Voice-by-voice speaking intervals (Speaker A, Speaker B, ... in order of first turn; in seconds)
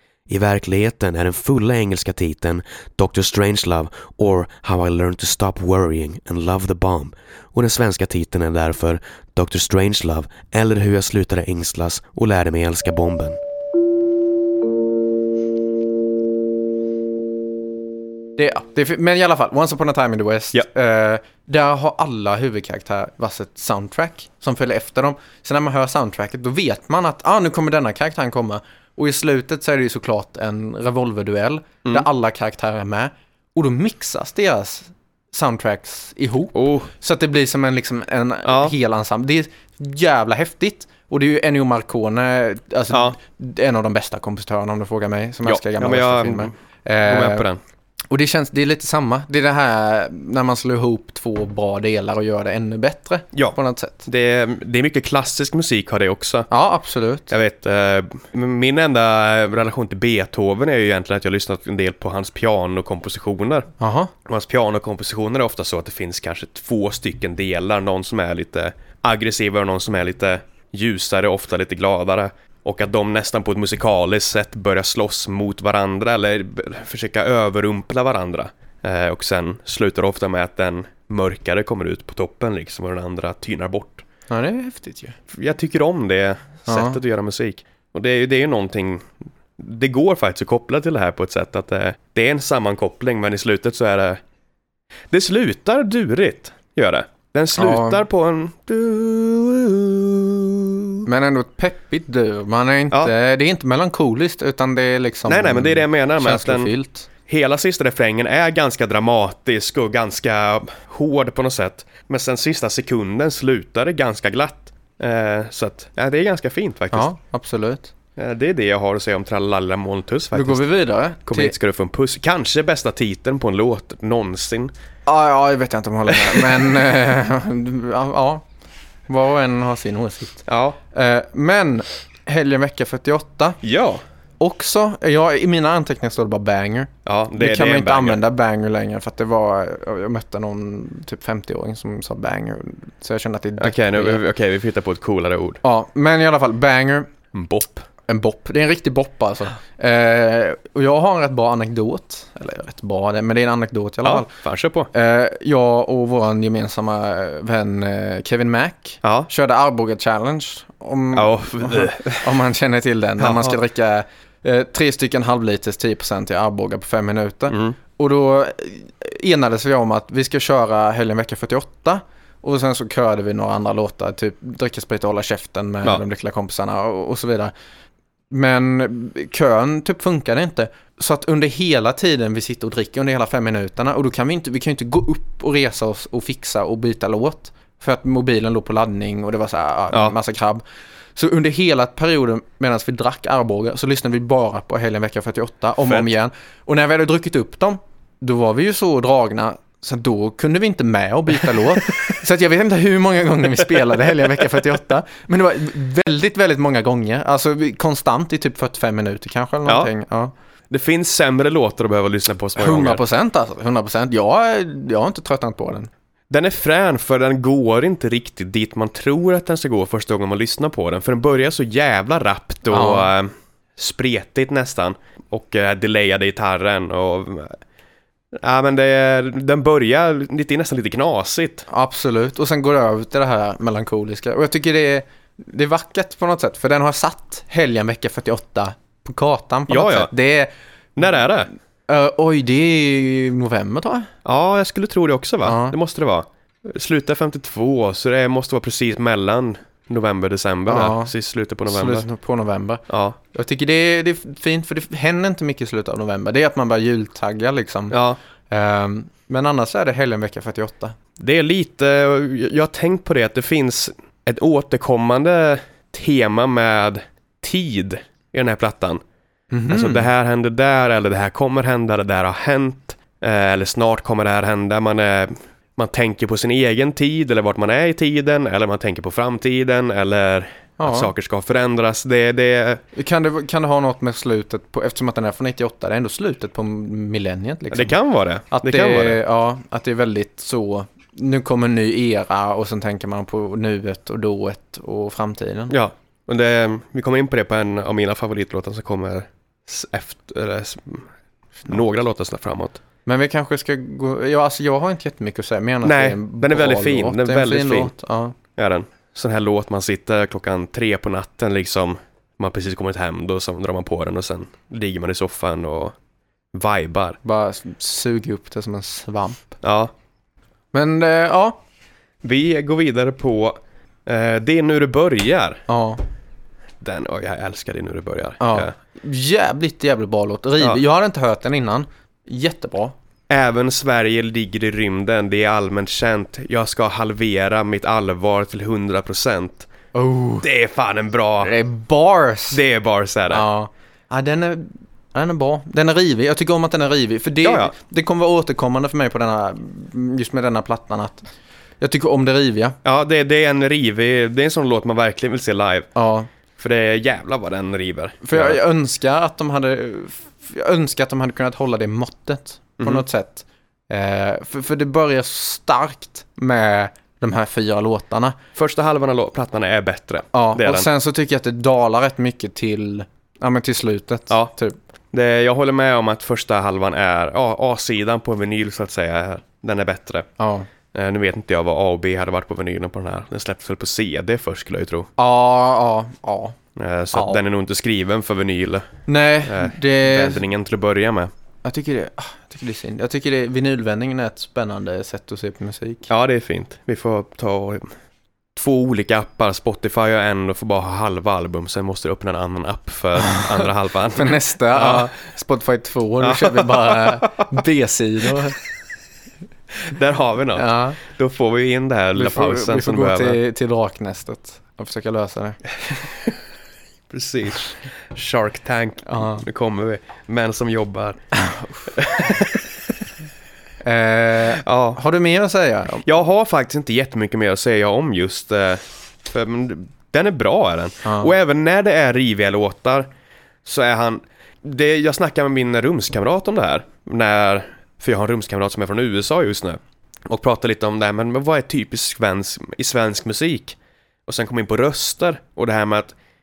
Speaker A: 0.3-13.4
Speaker B: 18.4-47.5, 48.1-54.1, 56.5-57.3, 63.8-64.1, 84.3-85.2, 86.7-87.0, 97.5-98.0, 101.0-107.1, 116.9-117.9, 120.3-121.5, 125.0-128.4, 129.1-133.6, 134.4-144.2, 145.6-147.1, 148.1-154.3, 154.9-177.5, 178.3-190.6, 191.2-210.3, 212.6-215.9, 222.7-223.1, 231.7-240.5, 241.9-244.1, 245.4-245.8, 250.7-251.1, 251.7-257.9, 258.5-260.9, 269.5-270.1, 280.8-281.1, 282.9-288.0, 288.5-295.7, 303.1-308.4, 317.2-319.6, 320.7-321.6, 325.7-326.0, 328.4-332.9, 339.9-340.5, 341.4-342.6, 343.3-351.2, 351.8-352.8, 355.9-356.3, 358.2-368.4, 370.3-374.8, 380.4-380.7, 385.2-386.6, 387.1-387.4, 389.1-390.4, 391.6-396.1, 404.1-408.5, 410.5-411.0, 412.1-415.6, 419.1-419.4, 421.4-421.7, 423.8-426.0, 431.0-431.3
Speaker C: 36.5-36.9, 38.4-38.7, 42.9-43.2, 45.4-47.6, 53.3-56.5, 57.3-63.7, 64.2-84.0, 85.3-89.1, 89.6-94.2, 95.1-101.1, 105.2-106.7, 107.3-117.1, 118.2-120.6, 121.2-124.7, 126.1-126.7, 130.4-130.8, 133.6-134.0, 137.0-138.2, 143.6-145.6, 147.3-147.9, 154.0-154.9, 159.0-159.3, 161.1-162.3, 163.2-163.6, 167.5-167.8, 209.7-209.9, 210.7-213.0, 216.3-227.6, 228.3-231.7, 239.7-240.1, 240.9-241.5, 244.2-252.1, 252.9-253.2, 257.9-258.2, 261.2-269.0, 269.7-282.8, 287.7-289.2, 295.7-301.1, 301.6-302.8, 305.8-307.9, 308.6-315.9, 316.5-317.2, 319.6-319.9, 322.2-325.6, 326.8-328.7, 333.3-339.7, 340.4-341.5, 342.5-343.4, 347.4-347.7, 352.8-355.9, 356.6-358.6, 362.8-363.0, 368.6-370.9, 375.1-380.3, 380.9-385.1, 386.8-388.9, 389.4-391.3, 396.1-397.9, 398.5-405.1, 406.2-407.5, 409.8-413.4, 417.1-421.2, 421.9-422.7, 424.6-425.0, 426.0-433.1, 433.6-443.8, 444.3-446.1